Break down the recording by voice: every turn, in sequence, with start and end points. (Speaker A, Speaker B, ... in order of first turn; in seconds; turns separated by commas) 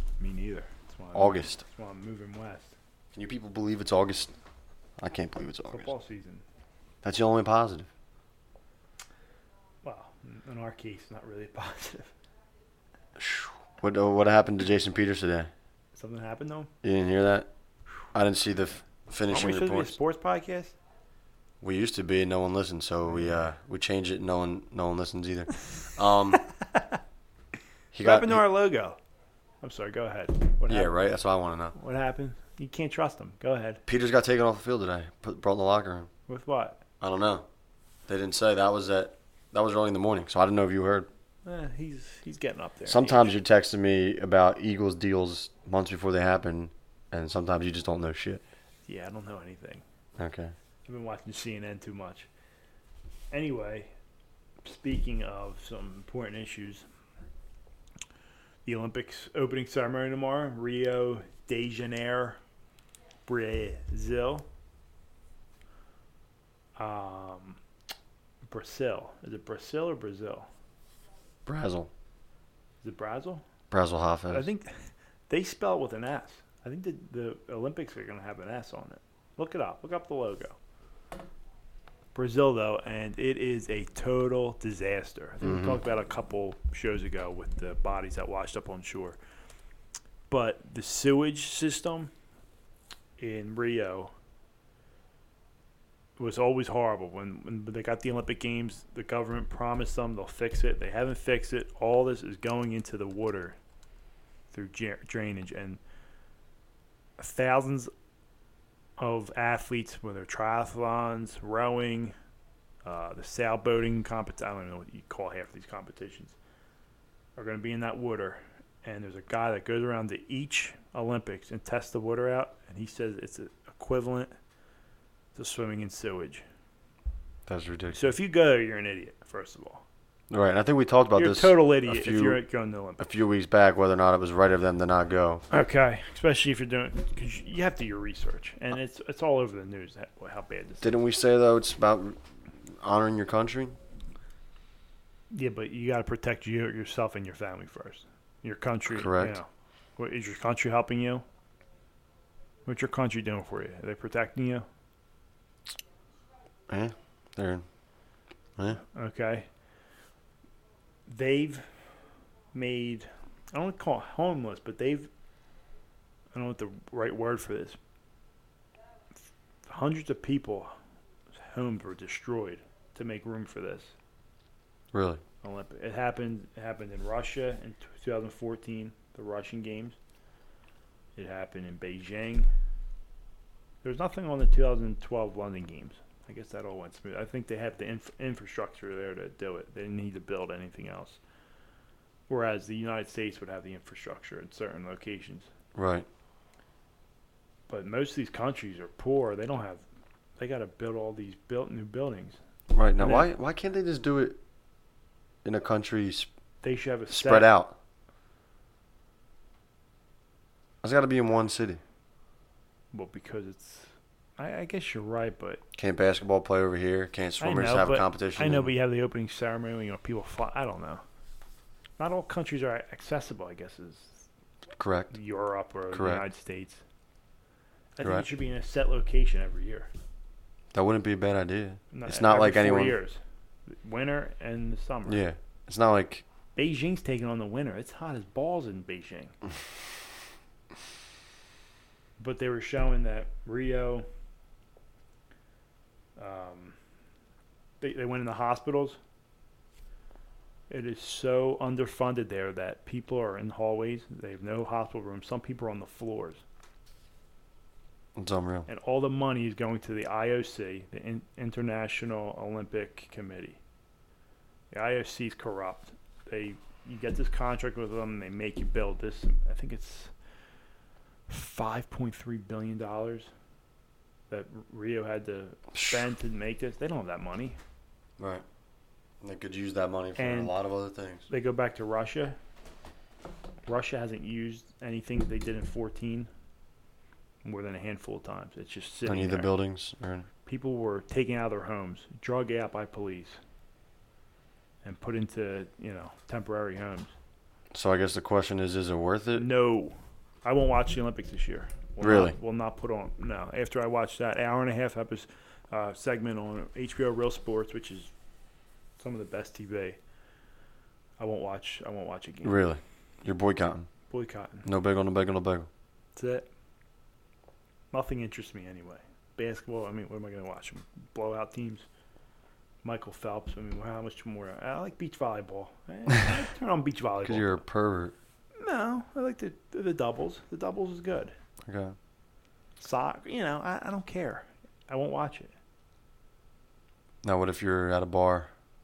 Speaker A: 0.2-2.8, Speaker B: 1.1-1.6, Speaker B: 3.1-4.3, Speaker B: 5.0-5.9, Speaker A: 5.7-6.4, Speaker B: 7.0-7.9, Speaker A: 9.8-12.1, Speaker B: 13.2-15.5, Speaker A: 15.9-16.7, Speaker B: 16.8-17.5, Speaker B: 18.1-20.0, Speaker A: 19.3-20.7, Speaker B: 21.6-26.4, Speaker B: 27.9-28.4, Speaker A: 28.0-29.0, Speaker A: 29.6-30.9, Speaker B: 30.7-31.8, Speaker A: 31.8-33.8, Speaker B: 33.9-36.1, Speaker A: 36.3-36.8, Speaker B: 37.0-37.5, Speaker B: 38.1-41.1, Speaker A: 41.5-43.3, Speaker B: 42.9-48.4, Speaker A: 48.9-49.8, Speaker B: 50.2-50.5, Speaker A: 50.9-52.3, Speaker A: 53.3-53.9, Speaker A: 54.6-56.9, Speaker A: 58.7-62.4, Speaker A: 63.3-64.5, Speaker A: 66.8-67.6, Speaker A: 68.5-70.5, Speaker B: 71.5-71.9, Speaker A: 72.8-73.4, Speaker B: 73.7-74.5, Speaker A: 74.3-74.7, Speaker A: 75.3-80.6, Speaker A: 82.2-89.2, Speaker B: 85.4-85.8, Speaker A: 90.3-92.1, Speaker A: 93.2-94.1, Speaker A: 96.2-103.6, Speaker A: 104.5-105.8, Speaker A: 107.2-107.9, Speaker A: 109.0-112.2, Speaker A: 112.8-116.3, Speaker A: 117.4-124.3, Speaker A: 125.3-126.4, Speaker B: 127.5-128.0, Speaker A: 127.9-129.8, Speaker B: 130.3-132.4, Speaker A: 131.2-133.1, Speaker B: 133.0-135.4, Speaker A: 135.5-140.9, Speaker B: 140.8-142.2, Speaker B: 142.8-143.8, Speaker A: 145.3-151.2, Speaker B: 148.9-149.4, Speaker A: 152.7-154.7, Speaker B: 156.7-157.6, Speaker A: 158.9-159.5, Speaker A: 161.1-161.7, Speaker A: 162.5-165.1, Speaker A: 166.3-167.8, Speaker A: 169.7-170.7, Speaker A: 171.4-173.9, Speaker B: 174.9-175.2, Speaker A: 175.4-180.0, Speaker A: 181.2-182.5, Speaker A: 183.8-191.2, Speaker A: 192.3-195.5, Speaker B: 195.8-196.1, Speaker A: 197.7-199.8, Speaker A: 200.4-202.4, Speaker B: 202.7-204.4, Speaker A: 203.0-203.3, Speaker B: 205.4-206.3, Speaker A: 206.6-207.5, Speaker B: 207.1-207.7, Speaker B: 210.8-211.8, Speaker A: 212.9-215.6, Speaker B: 215.7-218.7, Speaker A: 217.4-221.0, Speaker A: 222.0-224.2, Speaker B: 224.8-225.1, Speaker A: 225.1-226.8, Speaker B: 225.9-226.2, Speaker A: 228.0-229.9, Speaker B: 228.0-228.3, Speaker B: 230.7-233.0, Speaker A: 231.9-235.3, Speaker B: 235.1-236.2, Speaker A: 236.6-239.3, Speaker A: 242.2-244.1, Speaker A: 246.2-246.8, Speaker A: 247.8-249.0, Speaker A: 250.7-256.4, Speaker B: 258.2-258.7, Speaker A: 258.7-263.6, Speaker A: 264.7-270.1, Speaker A: 271.3-273.3, Speaker A: 274.3-277.6, Speaker B: 275.7-276.0, Speaker B: 278.2-278.4, Speaker B: 279.2-281.3, Speaker A: 280.2-280.5, Speaker A: 281.3-282.4, Speaker A: 283.7-286.3, Speaker A: 287.4-289.5, Speaker B: 289.1-290.3, Speaker A: 290.5-293.4, Speaker A: 294.8-297.1, Speaker B: 297.7-299.5, Speaker A: 299.4-308.1, Speaker B: 302.0-302.4, Speaker A: 309.0-310.0, Speaker A: 311.2-312.6, Speaker B: 312.4-313.9, Speaker A: 314.1-314.7, Speaker B: 314.6-315.7, Speaker A: 316.2-316.5, Speaker A: 317.9-321.9, Speaker A: 322.8-327.6, Speaker B: 327.2-328.1, Speaker A: 328.6-331.3, Speaker B: 331.6-332.0, Speaker A: 332.8-335.5, Speaker B: 337.2-338.5